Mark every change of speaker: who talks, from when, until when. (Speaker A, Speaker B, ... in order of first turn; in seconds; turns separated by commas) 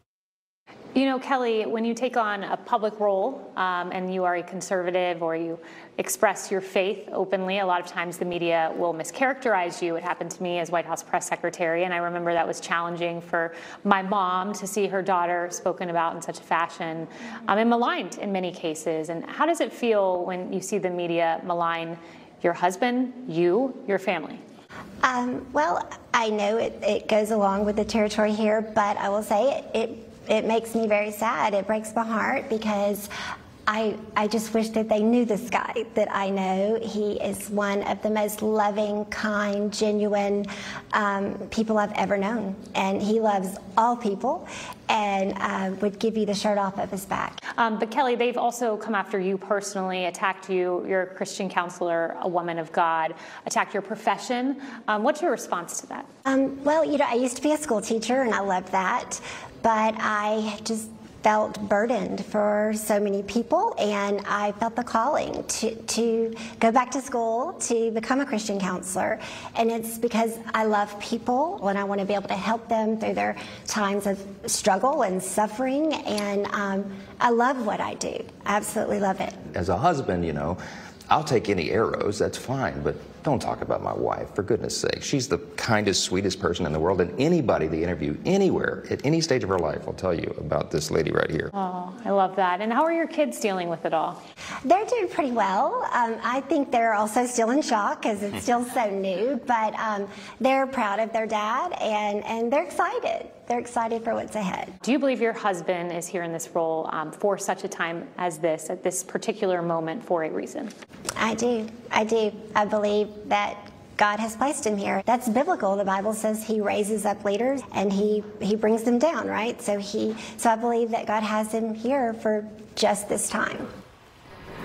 Speaker A: 0.9-24.4, Speaker B: 25.0-33.1, Speaker B: 33.7-47.4, Speaker A: 47.6-56.0, Speaker B: 56.2-79.4, Speaker C: 79.5-80.6, Speaker C: 81.1-91.5, Speaker A: 91.5-94.2, Speaker B: 94.6-104.7, Speaker A: 104.8-110.7, Speaker B: 111.2-123.7